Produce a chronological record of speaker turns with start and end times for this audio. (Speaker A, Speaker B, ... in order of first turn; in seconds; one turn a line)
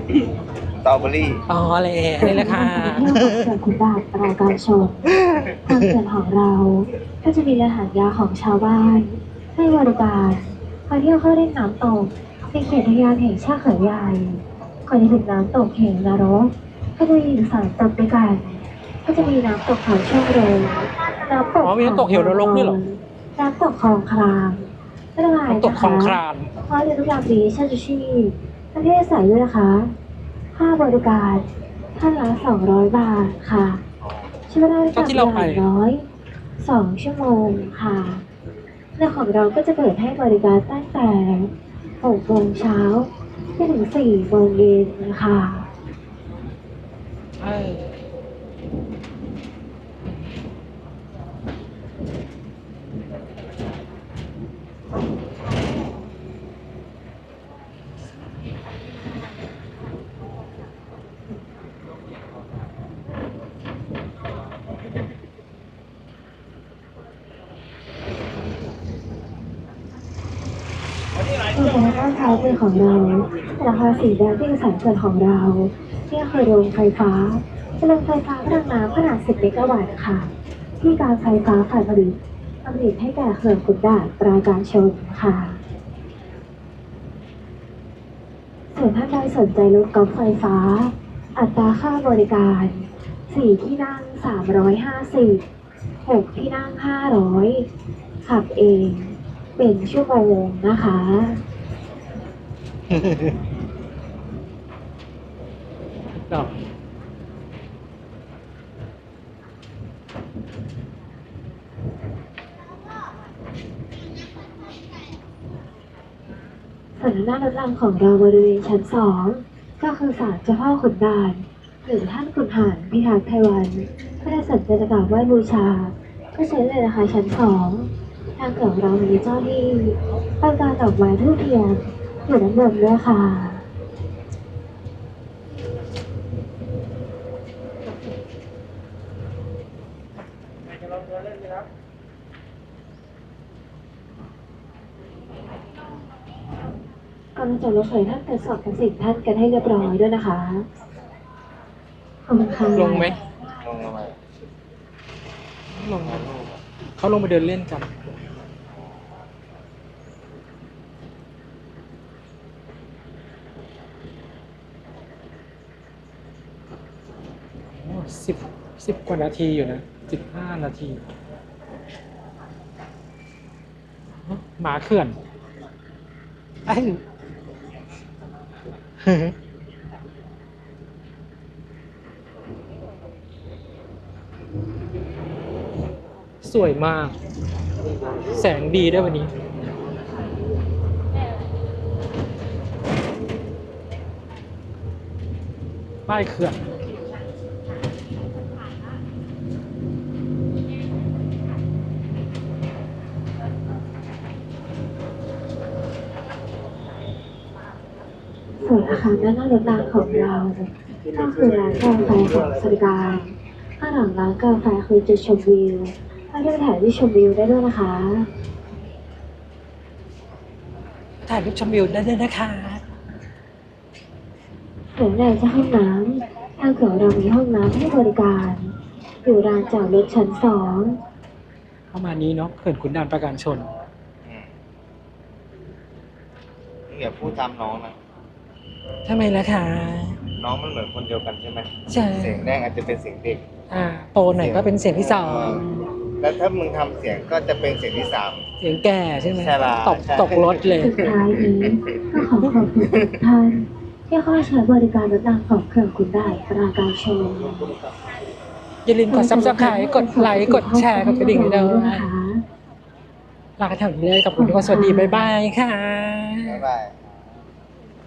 Speaker A: 0.8-1.4
Speaker B: 1.5-3.5
Speaker C: 2.2-5.0
Speaker A: 5.2-5.6
Speaker C: 5.7-29.9
Speaker B: 21.6-22.8
Speaker B: 25.5-26.5
Speaker C: 30.5-33.8
Speaker A: 34.0-34.4
Speaker C: 34.5-36.0
Speaker B: 34.9-35.6
Speaker C: 36.6-38.2
Speaker C: 39.0-45.7
Speaker B: 47.4-47.9
Speaker C: 71.5-85.6
Speaker C: 88.7-95.4
Speaker C: 96.0-97.7
Speaker C: 98.2-101.4
Speaker B: 102.9-103.3
Speaker B: 106.3-106.5
Speaker C: 117.0-133.6
Speaker C: 147.3-150.7
Speaker C: 152.3-153.1
Speaker B: 152.7-153.2
Speaker A: 153.6-154.2
Speaker B: 155.7-156.2
Speaker A: 156.0-156.6
Speaker B: 157.0-157.9
Speaker B: 167.7-171.0
Speaker B: 174.2-175.2
Speaker B: 176.7-177.0
Speaker B: 179.0-179.3
Speaker B: 186.4-187.1
Speaker B: 188.3-189.4
Speaker B: 196.1-196.6
Speaker C: 208.6-218.3
Speaker B: 221.2-222.8
Speaker C: 224.9-228.7
Speaker C: 229.2-231.0
Speaker B: 231.9-233.7
Speaker A: 234.2-234.5
Speaker A: 236.9-237.9
Speaker B: 239.1-240.2
Speaker A: 240.4-243.5
Speaker B: 241.9-242.4
Speaker B: 243.7-245.7
Speaker A: 244.3-248.5
Speaker B: 248.6-251.0
Speaker A: 249.2-253.1
Speaker C: 250.8-257.6
Speaker B: 258.9-262.1
Speaker C: 259.1-262.4
Speaker B: 263.6-266.6
Speaker C: 264.4-265.3
Speaker A: 266.4-267.2